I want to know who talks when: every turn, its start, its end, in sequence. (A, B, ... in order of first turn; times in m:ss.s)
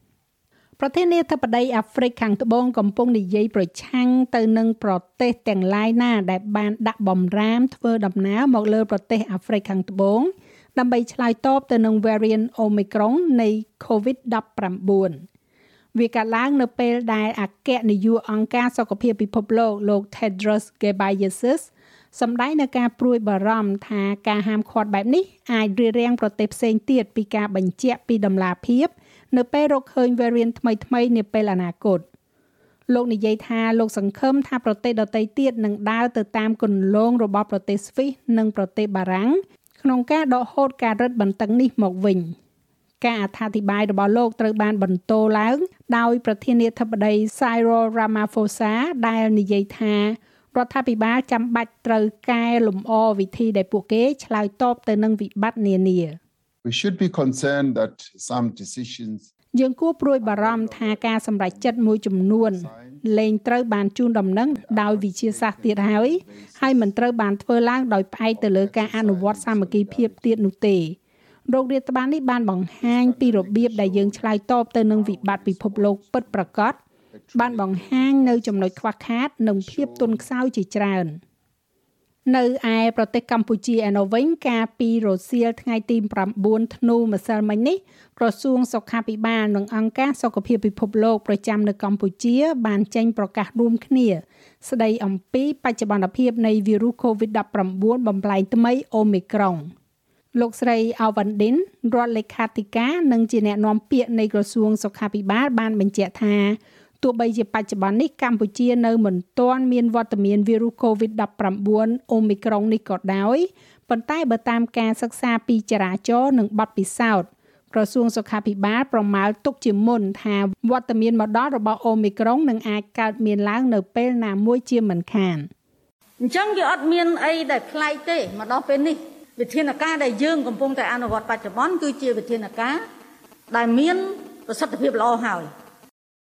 0:00.8-0:15.2 A
0:16.0-0:32.0 A
0:32.9-0:42.3 A
0:43.0-0:56.2 A
0:56.6-0:59.3 B
0:59.5-1:11.0 A
1:00.2-1:03.1 B
1:04.5-1:06.9 B
1:08.3-1:10.3 B
1:11.5-1:16.8 A
1:12.8-1:14.3 B
1:14.9-1:18.8 B
1:17.4-1:21.2 A
1:19.6-1:20.3 B
1:22.3-1:39.7 A
1:40.4-2:05.5 A
2:06.2-2:12.8 C
2:13.5-2:15.5 C